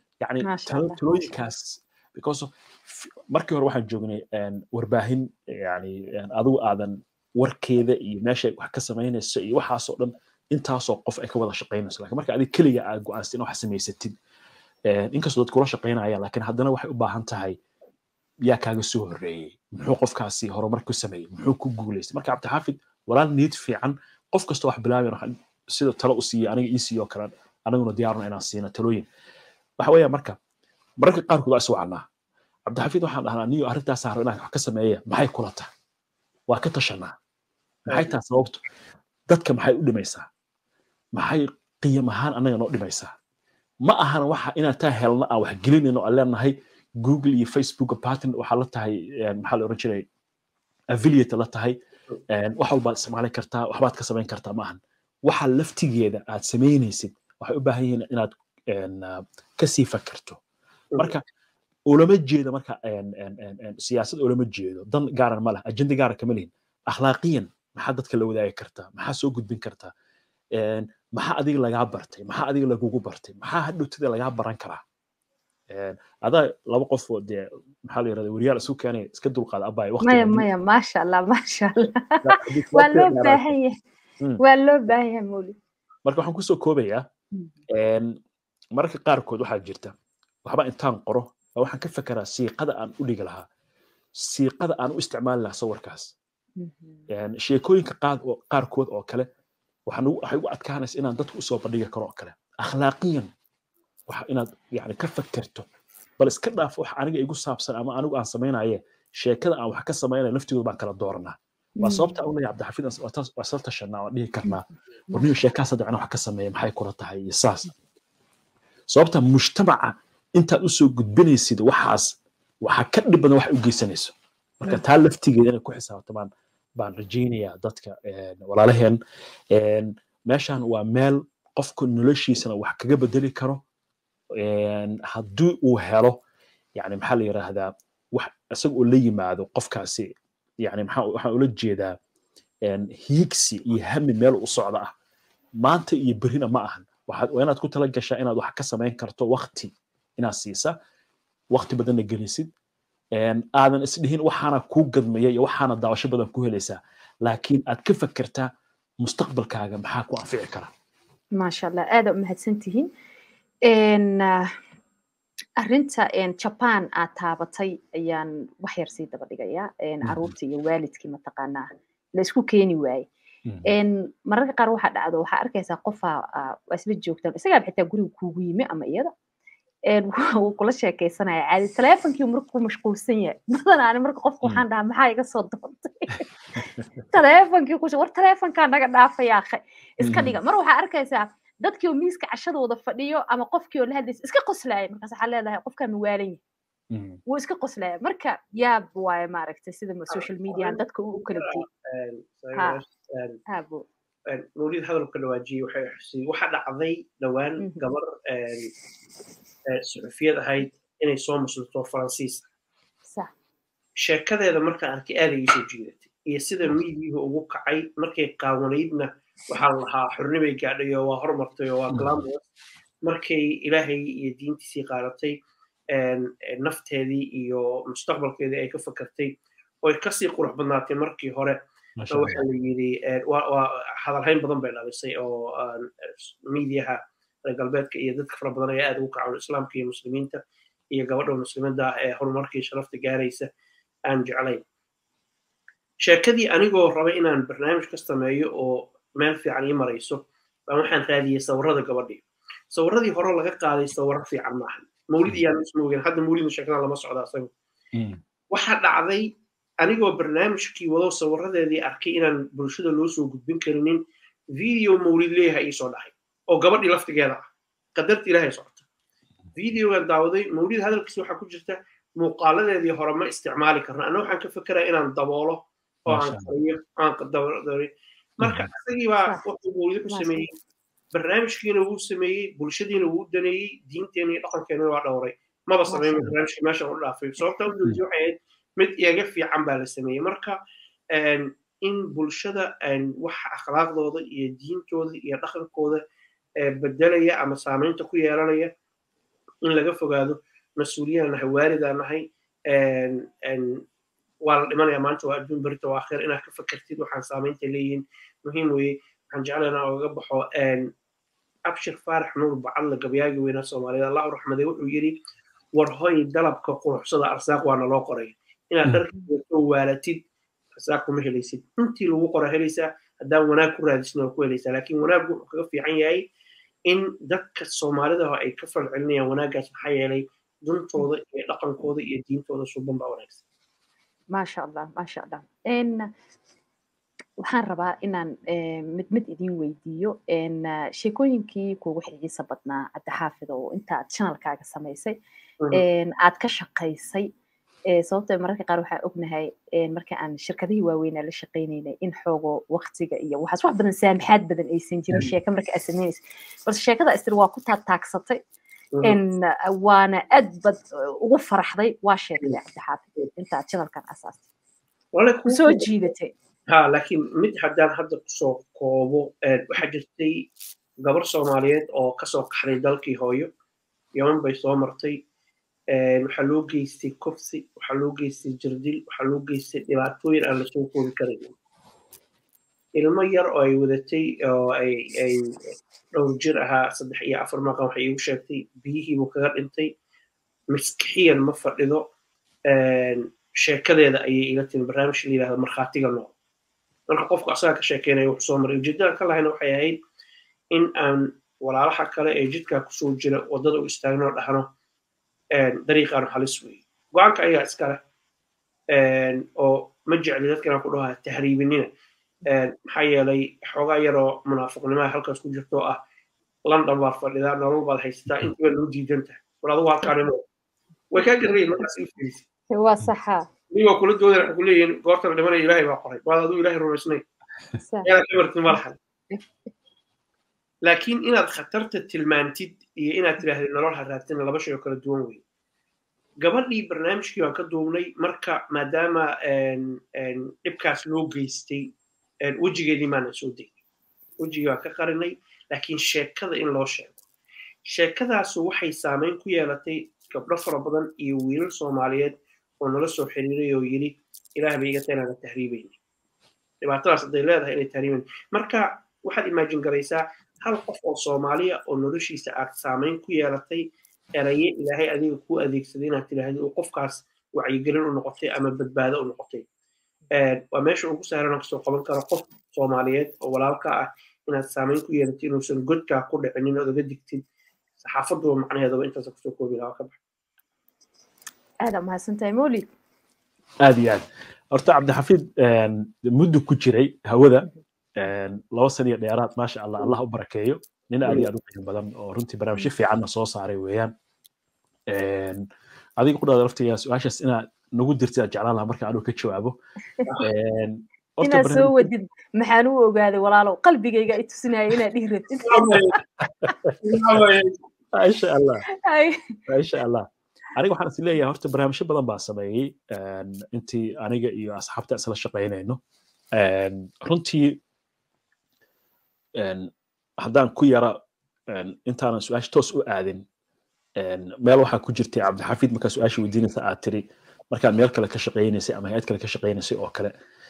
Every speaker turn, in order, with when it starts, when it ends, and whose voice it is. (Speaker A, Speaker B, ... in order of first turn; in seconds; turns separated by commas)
Speaker A: 0.2-14.1, Speaker B: 0.4-1.3, Speaker A: 14.9-17.6, Speaker A: 18.5-29.1, Speaker A: 29.8-30.4, Speaker A: 31.0-32.0, Speaker A: 32.7-35.7, Speaker A: 36.5-37.1, Speaker A: 37.9-38.6, Speaker A: 39.3-40.3, Speaker A: 41.1-43.1, Speaker A: 43.8-50.0, Speaker A: 50.9-51.8, Speaker A: 52.3-60.4, Speaker A: 61.9-69.9, Speaker A: 70.5-74.8, Speaker A: 75.7-80.5, Speaker B: 80.0-83.8, Speaker A: 82.2-83.5, Speaker B: 84.4-85.6, Speaker A: 86.0-87.0, Speaker A: 87.7-88.2, Speaker A: 88.8-89.9, Speaker A: 90.4-93.5, Speaker A: 94.2-96.1, Speaker B: 96.6-97.0, Speaker A: 97.1-99.3, Speaker A: 99.9-103.3, Speaker A: 104.1-105.6, Speaker A: 106.2-117.7, Speaker B: 111.8-112.2, Speaker A: 118.9-129.0, Speaker A: 129.5-133.6, Speaker A: 134.3-136.2, Speaker A: 136.8-140.1, Speaker A: 140.6-141.9, Speaker A: 142.7-144.9, Speaker A: 145.6-150.8, Speaker A: 151.5-152.5, Speaker A: 153.1-158.5, Speaker A: 159.0-160.7, Speaker B: 161.4-162.9, Speaker B: 163.7-164.5, Speaker B: 165.6-173.1, Speaker A: 170.0-170.3, Speaker A: 173.4-173.7, Speaker B: 173.6-179.1, Speaker B: 179.9-196.4, Speaker A: 190.0-190.4, Speaker A: 196.9-197.2, Speaker B: 197.3-201.7, Speaker C: 200.1-203.4, Speaker B: 203.5-203.8, Speaker C: 204.3-208.7, Speaker B: 207.6-207.8, Speaker C: 209.7-212.5, Speaker C: 214.0-222.4, Speaker A: 221.9-222.2, Speaker C: 223.0-225.4, Speaker C: 225.9-229.3, Speaker C: 229.8-231.6, Speaker A: 232.0-232.4, Speaker C: 232.1-240.4, Speaker C: 240.9-243.5, Speaker C: 244.1-244.6, Speaker C: 246.0-257.5, Speaker A: 257.9-258.2, Speaker C: 258.5-259.3, Speaker C: 259.8-264.0, Speaker C: 264.5-268.9, Speaker C: 269.6-280.5, Speaker A: 276.1-276.5, Speaker B: 280.1-280.5, Speaker C: 281.1-290.6, Speaker B: 285.9-286.3, Speaker C: 291.1-296.0, Speaker C: 296.6-298.7, Speaker C: 299.6-303.8, Speaker C: 304.4-310.9, Speaker C: 311.7-315.1, Speaker C: 315.7-320.2, Speaker C: 320.8-326.2, Speaker C: 326.9-333.4, Speaker B: 334.3-336.1, Speaker B: 337.4-345.2, Speaker B: 345.7-347.3, Speaker B: 347.9-358.4, Speaker B: 359.0-364.4, Speaker C: 365.1-365.9, Speaker B: 365.4-366.3, Speaker C: 366.7-370.5, Speaker C: 371.0-373.5, Speaker C: 374.1-375.2, Speaker C: 375.9-381.5, Speaker C: 383.0-389.9, Speaker C: 390.7-392.1, Speaker C: 392.7-396.3, Speaker C: 397.1-400.0, Speaker C: 400.7-404.7, Speaker C: 405.5-408.0, Speaker C: 408.9-411.9, Speaker C: 412.4-416.0, Speaker C: 416.6-420.4, Speaker C: 421.1-422.4, Speaker B: 422.7-423.5, Speaker C: 423.7-427.2, Speaker B: 427.8-428.1, Speaker C: 428.0-429.0, Speaker C: 430.8-435.4, Speaker C: 436.4-443.7, Speaker C: 444.4-447.2, Speaker C: 447.9-455.9, Speaker C: 456.8-463.8, Speaker C: 464.4-469.6, Speaker C: 470.3-477.4, Speaker C: 478.0-480.2, Speaker B: 481.8-482.9, Speaker A: 483.8-494.1, Speaker A: 495.1-495.6, Speaker A: 496.2-499.7, Speaker A: 500.4-502.1, Speaker B: 501.4-506.1, Speaker C: 505.6-506.2, Speaker A: 506.4-507.4, Speaker C: 507.0-507.7, Speaker A: 508.1-508.9, Speaker B: 509.0-509.6, Speaker A: 509.7-516.0, Speaker A: 516.5-517.8, Speaker A: 519.6-521.2, Speaker A: 521.7-523.4, Speaker A: 524.2-530.3